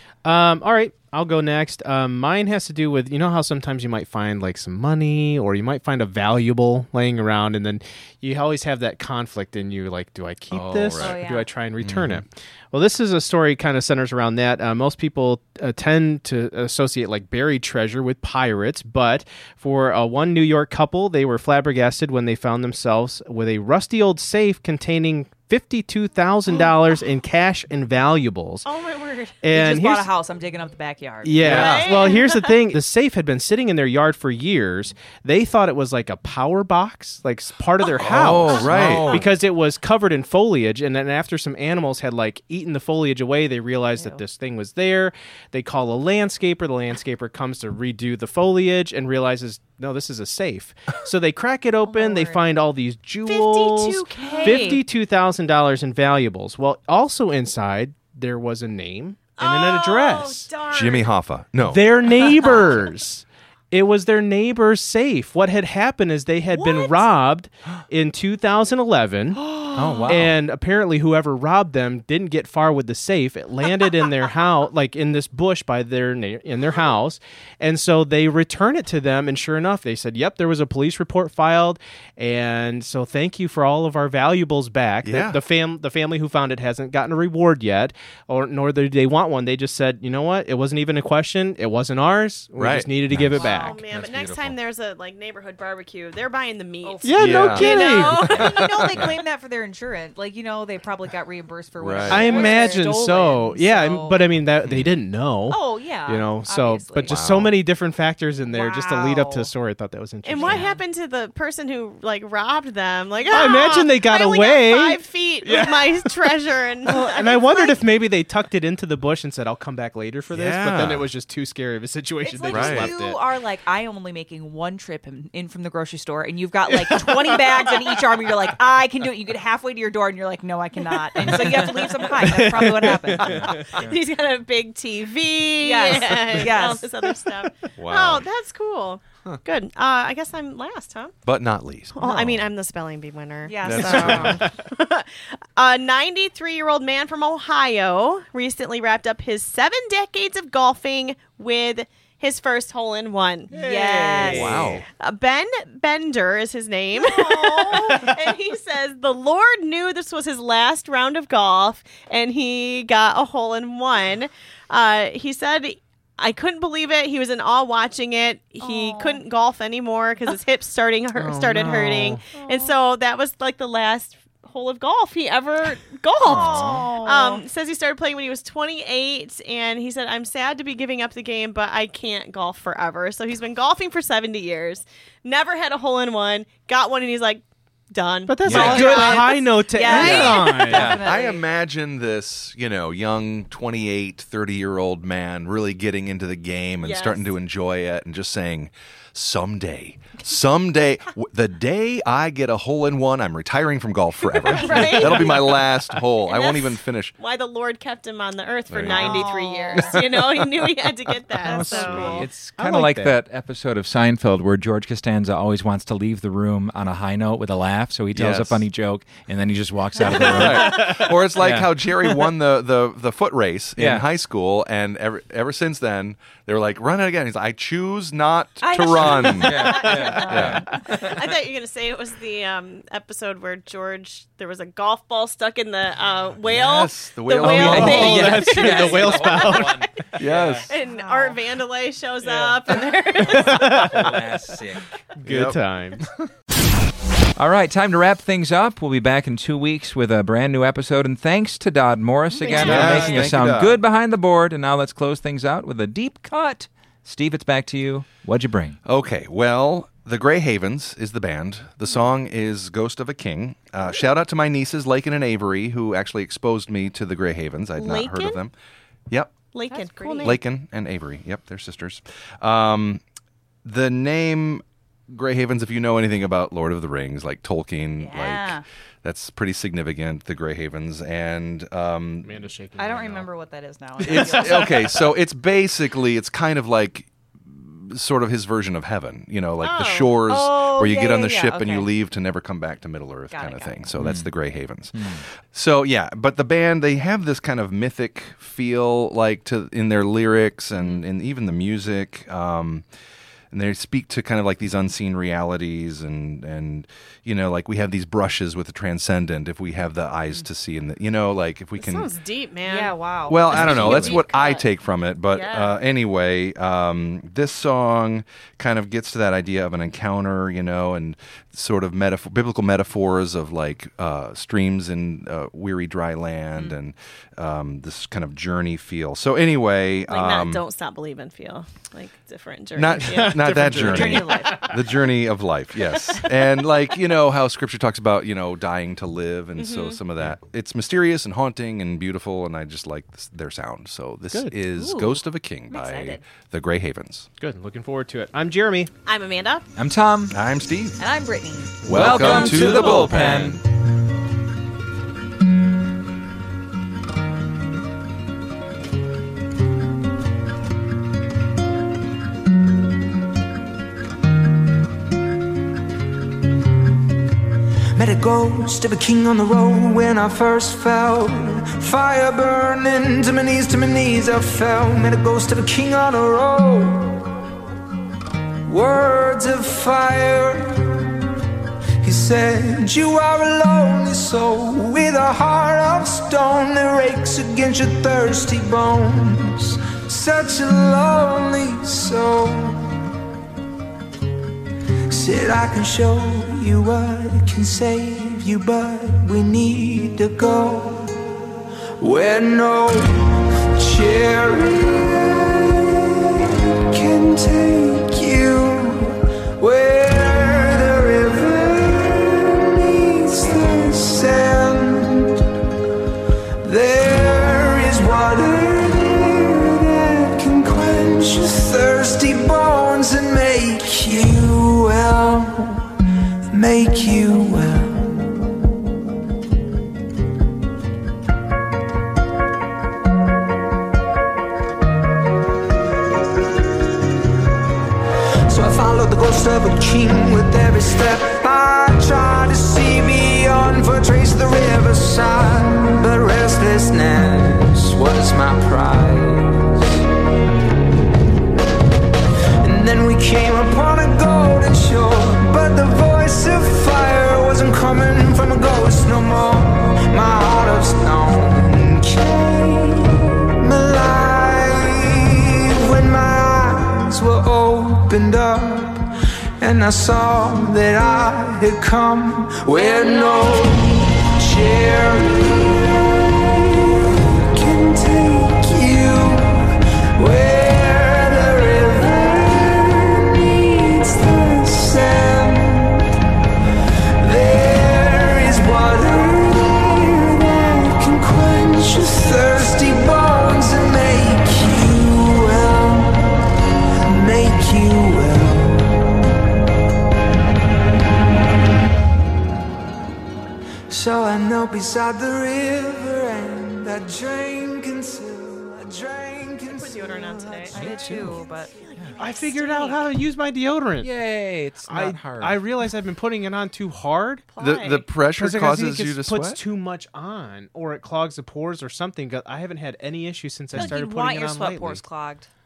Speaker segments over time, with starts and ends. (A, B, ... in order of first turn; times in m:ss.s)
0:00.2-0:28.6 A
0:10.5-0:11.2 B
0:11.0-0:11.5 C
0:11.8-0:12.2 B
0:28.6-0:29.4 D
0:29.4-0:30.1 A
0:29.5-0:31.9 C
0:31.2-1:00.5 A
0:31.4-0:31.8 B
0:31.4-0:32.6 D
0:38.0-0:39.2 B
0:38.1-0:39.3 E
0:44.0-0:44.2 C
0:51.8-0:52.4 C
0:53.3-0:54.8 D
0:53.6-0:54.8 C
0:59.4-1:01.1 D
1:00.7-1:01.9 B
1:01.6-1:09.4 A
1:06.5-1:07.1 D
1:09.8-1:10.3 E
1:09.8-1:10.3 B
1:10.1-1:33.8 A
1:25.0-1:25.4 B
1:32.6-1:32.9 B
1:33.1-1:34.6 E
1:33.4-1:33.7 C
1:33.4-1:37.1 D
1:36.8-1:44.3 C
1:37.0-1:38.3 A
1:37.2-1:39.2 B
1:37.6-1:38.4 D
1:41.8-1:42.4 B
1:42.1-1:50.7 A
1:42.4-1:42.6 D
1:44.6-1:44.9 B
1:45.5-1:47.2 C
1:47.1-1:47.5 B
1:48.5-1:49.5 C
1:50.2-1:57.8 D
1:50.4-1:50.8 C
1:53.3-2:03.2 A
2:00.3-2:01.1 B
2:02.2-2:13.4 C
2:02.5-2:02.9 B
2:06.7-2:07.4 A
2:11.2-2:13.6 A
2:11.3-2:11.6 E
2:13.2-2:14.0 E
2:13.4-2:21.1 D
2:15.6-2:16.9 C
2:16.3-2:16.7 A
2:17.8-2:18.3 B
2:21.2-2:22.4 B
2:21.9-2:33.5 D
2:23.4-2:24.4 C
2:23.6-2:24.4 B
2:24.0-2:24.5 A
2:33.5-2:34.8 C
2:33.5-2:34.8 A
2:34.2-2:34.8 B
2:35.0-3:10.6 D
2:36.9-2:38.0 C
2:37.7-2:38.1 A
2:48.6-2:49.2 C
2:51.1-2:52.2 A
2:52.3-2:52.8 C
2:56.2-2:57.4 C
2:56.3-2:56.8 B
3:08.3-3:11.0 A
3:08.4-3:09.0 E
3:08.5-3:11.4 C
3:10.7-3:11.0 E
3:10.8-3:27.1 B
3:16.8-3:17.3 D
3:24.3-3:32.2 D
3:24.6-3:25.2 C
3:28.7-3:30.0 B
3:28.8-3:30.0 C
3:31.4-3:32.3 C
3:31.4-3:33.2 A
3:32.2-3:41.8 E
3:38.1-3:38.6 B
3:40.0-3:50.6 B
3:40.3-3:40.6 A
3:43.8-3:44.1 E
3:48.6-3:50.6 C
3:49.1-3:51.4 E
3:49.7-3:59.8 D
3:50.0-3:50.4 A
3:56.4-3:58.4 B
3:57.4-4:00.7 E
3:57.5-3:59.8 A
4:00.2-4:00.7 B
4:00.6-4:04.1 D
4:00.8-4:01.4 C
4:03.2-4:05.0 E
4:03.4-4:04.2 A
4:05.2-4:06.0 A
4:05.2-4:06.1 B
4:07.4-4:18.8 E
4:12.3-4:13.3 C
4:12.5-4:13.8 B
4:12.6-4:13.1 A
4:18.8-4:28.5 B
4:27.8-4:28.4 D
4:29.1-4:29.4 B
4:29.5-4:30.4 D
4:29.7-4:30.4 C
4:30.2-4:33.0 B
4:33.6-4:42.4 B
4:38.0-4:38.6 C
4:42.2-4:43.3 A
4:42.8-4:45.0 C
4:44.0-4:45.0 A
4:44.0-5:02.9 B
4:49.6-4:50.2 D
4:50.2-4:51.9 C
4:53.3-4:53.9 C
4:54.0-4:54.3 E
4:54.9-4:55.2 E
5:03.5-5:12.1 B
5:11.8-5:14.7 D
5:12.6-5:14.2 C
5:13.3-5:30.6 B
5:13.5-5:14.1 E
5:15.3-5:15.8 D
5:30.1-5:33.7 D
5:32.7-5:47.3 B
5:33.0-5:35.0 A
5:33.7-5:34.9 C
5:35.9-5:36.2 A
5:39.6-5:40.0 D
5:44.3-5:44.6 A
5:44.7-5:46.2 C
5:47.4-5:48.9 A
5:49.1-5:49.7 D
5:49.8-5:50.4 E
5:50.3-5:51.0 B
5:51.0-5:52.9 C
5:51.8-5:53.6 B
5:51.9-5:53.6 E
5:52.2-5:53.5 A
6:07.9-6:17.3 F
6:18.6-6:21.1 F
6:22.0-6:32.9 F
6:35.1-6:41.2 F
6:42.0-6:55.4 F
6:56.6-7:05.9 F
7:06.5-7:08.6 F
7:18.5-7:30.0 F
7:32.6-7:49.1 F
7:49.6-8:06.1 F
8:07.2-8:16.4 F
8:17.0-8:19.1 F
8:23.9-8:30.6 F
8:29.7-8:30.7 D
8:30.7-8:32.2 E
8:30.7-8:33.1 C
8:31.8-8:32.5 D
8:32.2-8:34.3 A
8:34.0-8:35.6 E
8:34.8-8:37.4 A
8:37.5-8:38.2 D
8:37.6-8:39.6 B
8:38.3-8:45.0 A
8:43.7-8:45.5 C